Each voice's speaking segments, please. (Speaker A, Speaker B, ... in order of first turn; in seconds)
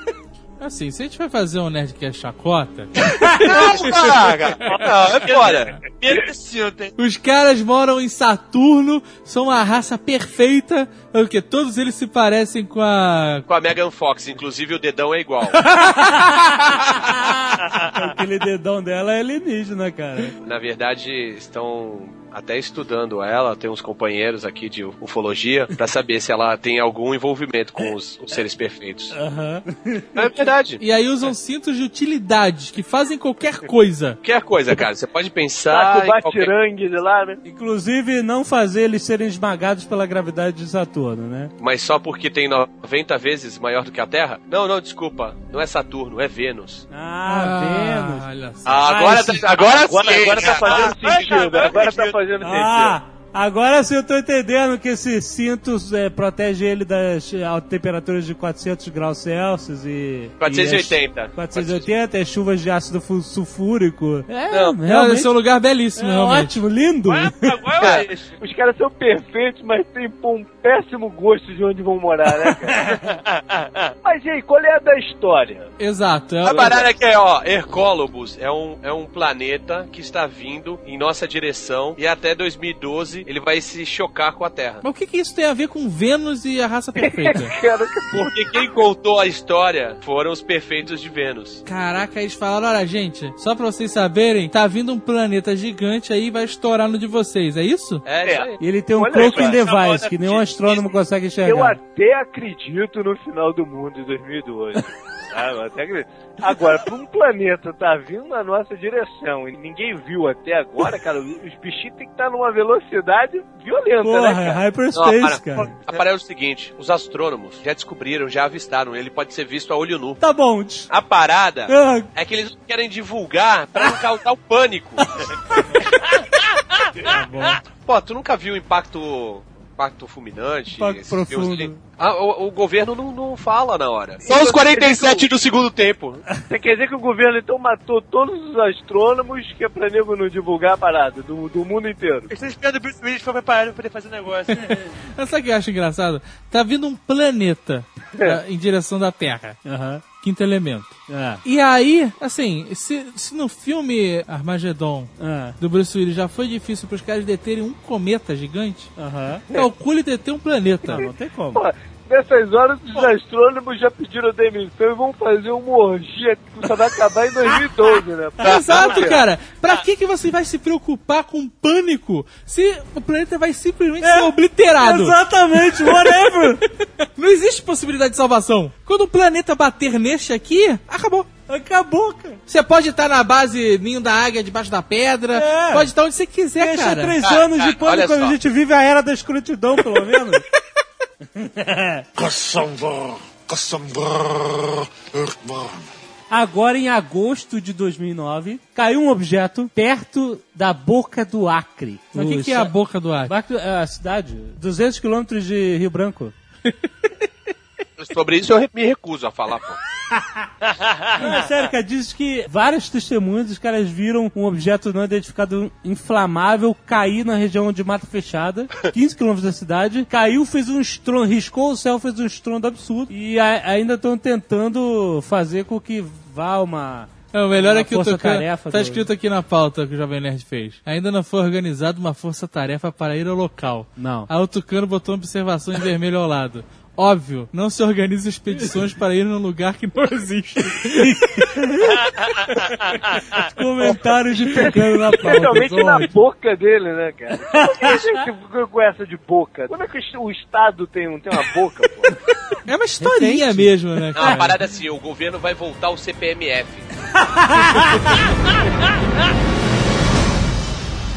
Speaker A: 0.6-3.8, 7.0-13.5, 15.7-16.5, 30.8-34.2, 47.2-49.4, 64.8-66.5, 75.8-76.8, 84.8-87.5, 91.7-98.1, 144.5-149.6, 150.2-158.9, 159.5-161.1, 168.4-181.3, 182.5-187.2, 202.1-203.3, 206.7-207.2, 227.3-241.5, 252.7-254.6
Speaker B: 3.1-3.4, 15.8-20.3, 29.1-30.2, 37.4-41.5, 46.9-48.2, 52.4-65.3, 66.0-67.7, 98.6-101.8, 114.0-115.8, 120.2-120.9, 121.7-122.1, 127.0-127.6, 130.7-131.8, 149.7-150.0, 151.1-151.4, 155.2-155.6, 159.0-159.5, 160.8-161.6, 168.4-168.8, 174.0-176.6, 181.5-182.4, 185.3-185.9, 186.6-190.4, 191.3-192.1, 196.3-206.3, 210.1-210.4, 211.2-229.1, 234.0-234.3, 240.9-242.7, 243.3-246.1, 247.5-248.2, 253.0-254.5, 257.4-258.1
Speaker C: 3.3-5.8, 13.5-15.7, 20.4-29.2, 30.1-30.8, 34.2-36.5, 41.6-46.9, 48.6-52.2, 60.4-61.9, 64.5-64.8, 67.8-68.1, 76.4-84.8, 88.1-91.6, 98.0-98.6, 99.2-99.6, 114.9-120.2, 120.9-125.3, 127.7-136.2, 187.2-188.4, 208.0-209.8, 254.1-256.9
Speaker D: 4.6-6.9, 50.4-51.9, 67.0-68.3, 99.2-100.8, 142.3-144.7
Speaker E: 35.7-37.4, 49.8-53.0, 67.9-72.9, 74.0-75.7, 76.5-76.9, 87.0-88.3, 98.2-99.6, 101.4-114.6, 134.2-135.3, 136.4-142.3, 161.5-169.3, 244.5-252.2
Speaker F: 192.2-195.9